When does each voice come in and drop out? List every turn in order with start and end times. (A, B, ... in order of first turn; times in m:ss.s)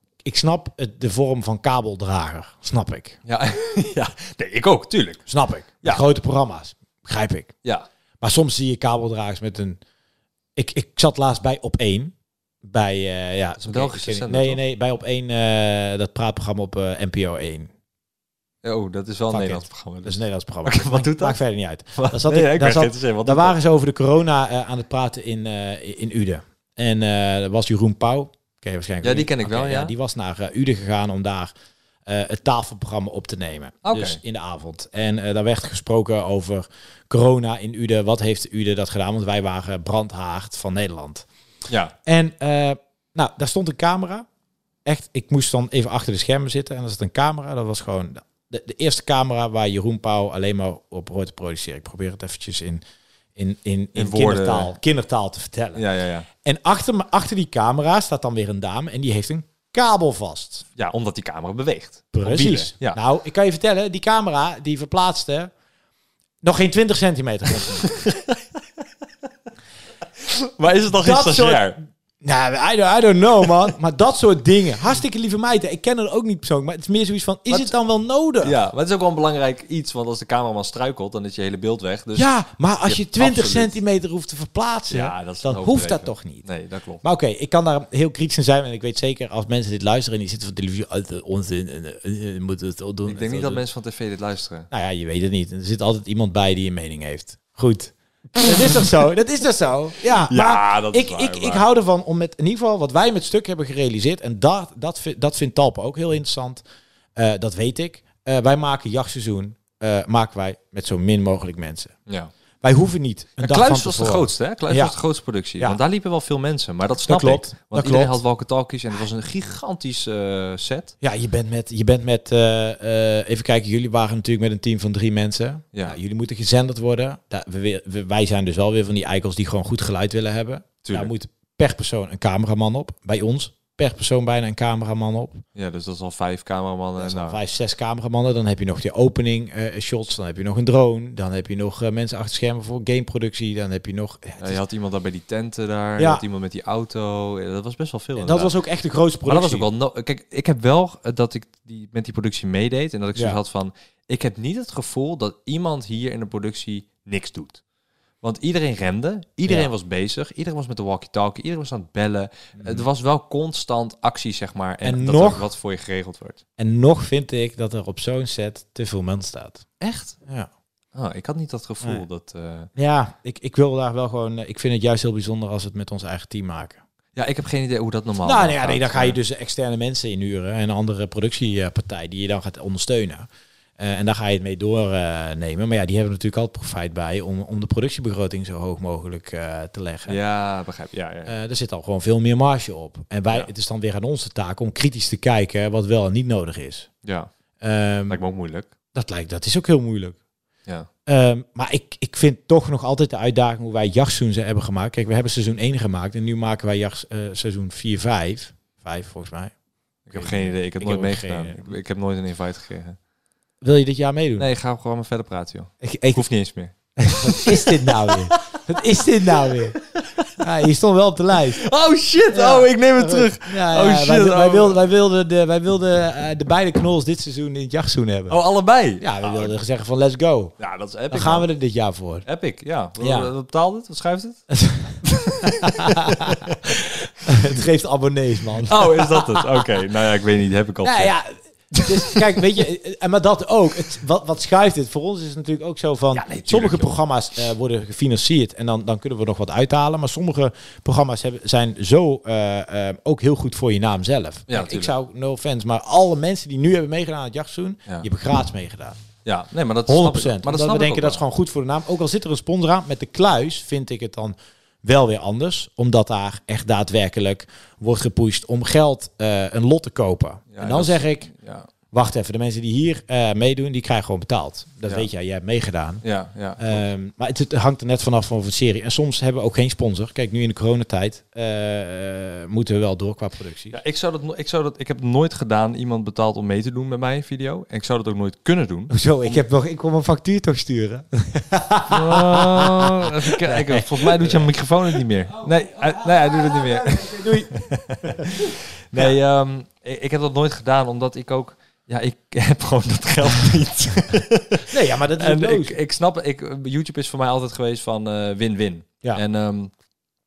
0:00.2-0:03.2 A
0:03.2-0:05.3 B
0:05.2-0:07.5 A
0:08.2-0:09.8 A
0:10.6-0:17.7 A
0:13.6-0:14.6 B
0:18.6-0:21.4 B
0:19.3-0:31.5 A
0:22.0-0:23.6 B
0:29.0-0:29.9 B
0:32.0-0:41.3 A
0:33.8-0:34.2 B
0:42.0-0:44.2 A
0:44.8-0:52.8 A
0:53.4-0:55.8 A
0:53.9-0:54.7 B
0:55.8-0:56.3 B
0:56.4-1:00.6 A
1:00.8-1:03.0 B
1:02.1-1:05.5 A
1:06.4-1:07.9 A
1:07.8-1:08.6 B
1:10.2-1:11.8 B
1:10.9-1:18.6 A
1:18.4-1:22.3 B
1:22.2-1:26.4 A
1:22.8-1:23.8 B
1:24.9-1:27.0 B
1:27.0-1:33.6 A
1:33.1-1:34.7 B
1:34.7-1:46.6 A
1:38.3-1:38.8 B
1:40.1-1:41.6 B
1:47.2-1:51.9 A
1:52.6-1:55.0 A
1:53.4-2:00.9 B
1:57.0-1:58.2 A
2:01.0-2:15.4 A
2:10.8-2:11.1 B
2:15.5-2:17.4 B
2:17.0-2:24.6 A
2:24.4-2:28.5 B
2:26.0-2:26.2 A
2:28.2-2:29.7 A
2:29.2-2:37.6 B
2:33.1-2:33.4 A
2:38.2-2:46.4 B
2:42.6-2:42.8 A
2:44.8-2:45.5 A
2:46.6-2:49.7 A
2:49.8-2:50.2 B
2:50.9-2:52.7 B
2:52.7-2:56.8 A
2:57.1-2:59.2 B
2:58.2-3:03.3 A
3:03.8-3:10.2 A
3:10.1-3:11.3 B
3:11.2-3:16.9 A
3:17.0-3:17.3 B
3:17.6-3:18.2 A
3:18.1-3:18.7 B
3:18.9-3:20.2 A
3:21.0-3:29.5 A
3:30.1-3:33.0 B
3:30.1-3:31.7 A
3:33.6-3:34.5 A
3:34.4-3:40.5 B
3:35.8-3:36.2 A
3:37.0-3:39.8 A
3:40.4-3:41.6 A
3:41.3-3:44.8 B
3:42.3-3:48.4 A
3:48.3-3:49.5 B
3:49.0-3:50.5 A
3:50.6-3:51.5 B
3:51.1-3:52.2 A
3:52.2-3:54.5 B
3:53.0-3:53.3 A
3:54.5-3:56.4 A
3:55.8-3:56.8 B
3:57.2-3:59.5 A
3:58.6-4:01.1 B
4:00.8-4:19.0 A
4:06.1-4:06.9 B
4:14.5-4:14.9 B
4:19.2-4:21.2 B
4:19.9-4:31.3 A
4:30.5-4:31.7 B
4:31.9-4:36.0 A
4:36.0-4:36.8 B
4:36.6-4:43.8 A
4:43.7-4:49.4 B
4:48.9-4:54.5 A
4:51.9-5:09.7 B
4:55.3-4:58.4 A
5:04.7-5:05.7 A